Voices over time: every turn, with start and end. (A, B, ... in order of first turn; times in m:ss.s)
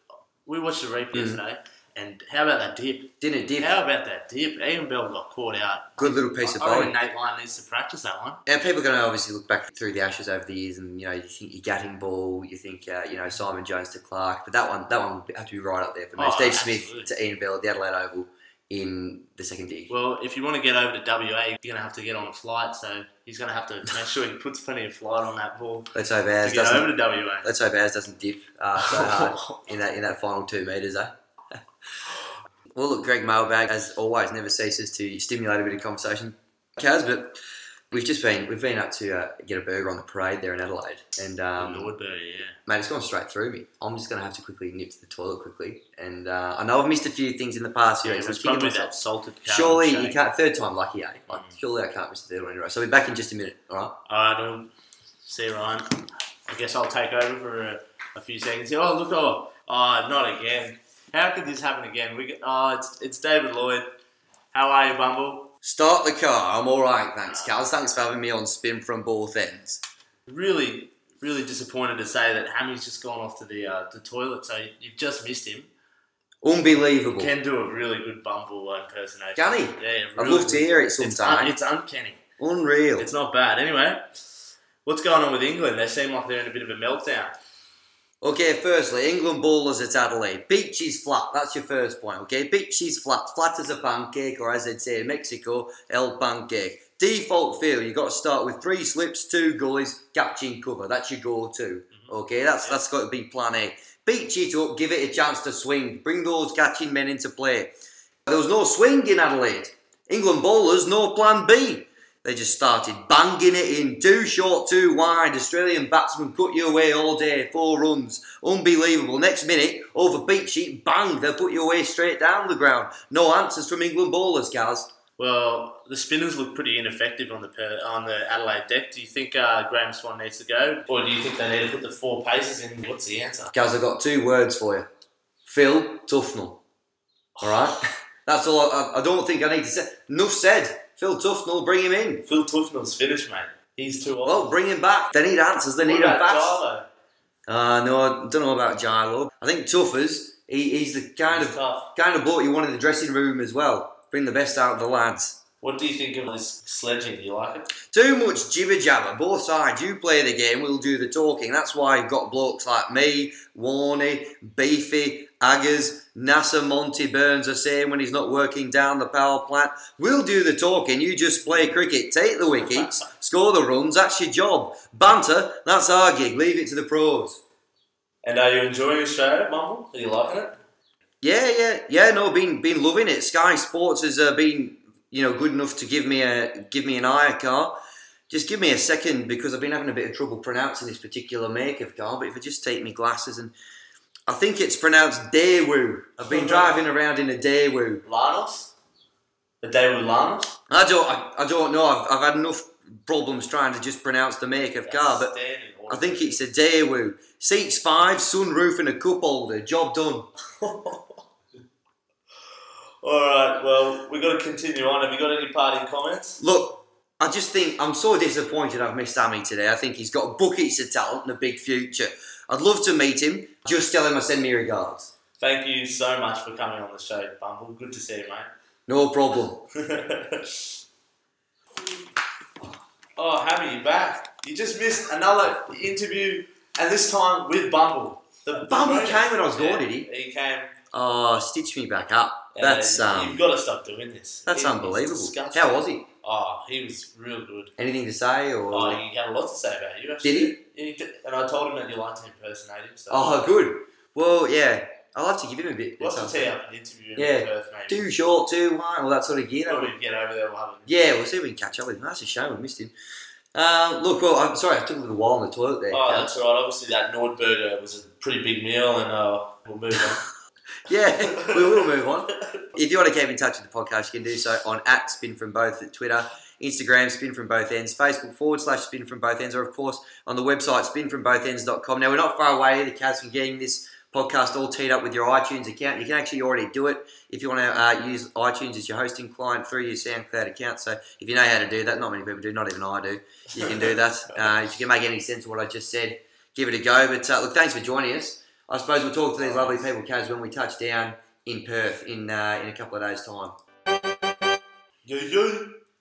0:00.4-0:08.4 A
0:01.1-0:01.4 B
0:03.2-0:03.7 B
0:06.0-0:06.9 B
0:08.4-0:19.9 B
0:16.2-0:17.1 A
0:19.9-0:27.5 A
0:25.9-0:31.1 B
0:28.8-0:29.7 A
0:32.7-0:37.4 B
0:37.9-0:41.9 B
0:41.6-0:42.6 A
0:42.7-0:48.9 B
0:48.0-0:50.2 A
0:49.4-0:54.0 B
0:51.3-0:51.6 A
0:54.0-0:54.7 A
0:55.2-1:04.0 A
1:04.5-1:05.5 A
1:05.6-1:09.8 B
1:10.3-1:15.7 A
1:16.4-1:17.3 B
1:17.1-1:22.2 A
1:19.4-1:21.5 B
1:22.4-1:23.1 B
1:23.0-1:24.2 A
1:24.8-1:27.3 A
1:28.2-1:47.7 B
1:41.9-1:42.8 A
1:48.2-2:04.9 B
2:05.2-2:13.5 A
2:13.5-2:14.9 B
2:15.4-2:16.6 B
2:17.4-2:17.8 A
2:17.4-2:22.2 B
2:22.2-2:24.5 A
2:24.2-2:26.6 B
2:25.8-2:26.9 A
2:27.5-2:35.4 B
2:31.3-2:31.9 A
2:35.6-2:37.7 A
2:37.9-2:57.4 B
2:58.2-3:00.6 A
3:01.2-3:07.8 B
3:08.3-3:13.5 B
3:14.3-3:18.0 B
3:16.2-3:16.8 A
3:18.0-3:18.7 A
3:19.6-3:20.5 A
3:20.7-3:25.3 B
3:24.8-3:26.4 A
3:25.9-3:30.3 B
3:30.6-3:31.2 A
3:33.0-3:36.4 A
3:36.4-3:45.1 B
3:45.4-3:48.5 A
3:48.9-3:49.7 B
3:49.8-3:50.7 A
3:53.2-4:00.7 A
3:58.5-4:00.1 B
4:00.9-4:03.4 B
4:02.5-4:07.7 A
4:04.5-4:06.0 B
4:07.8-4:09.0 B
4:08.7-4:13.4 A
4:10.2-4:10.5 B
4:13.1-4:16.5 B
4:16.0-4:18.1 A
4:17.2-4:19.9 B
4:19.6-4:21.3 A
4:20.9-4:22.9 B
4:23.5-4:26.3 B
4:25.9-4:30.2 A
4:30.9-5:03.5 B
4:31.2-4:32.0 A
4:53.6-4:53.9 A
4:59.4-4:59.9 A
5:05.0-5:05.8 A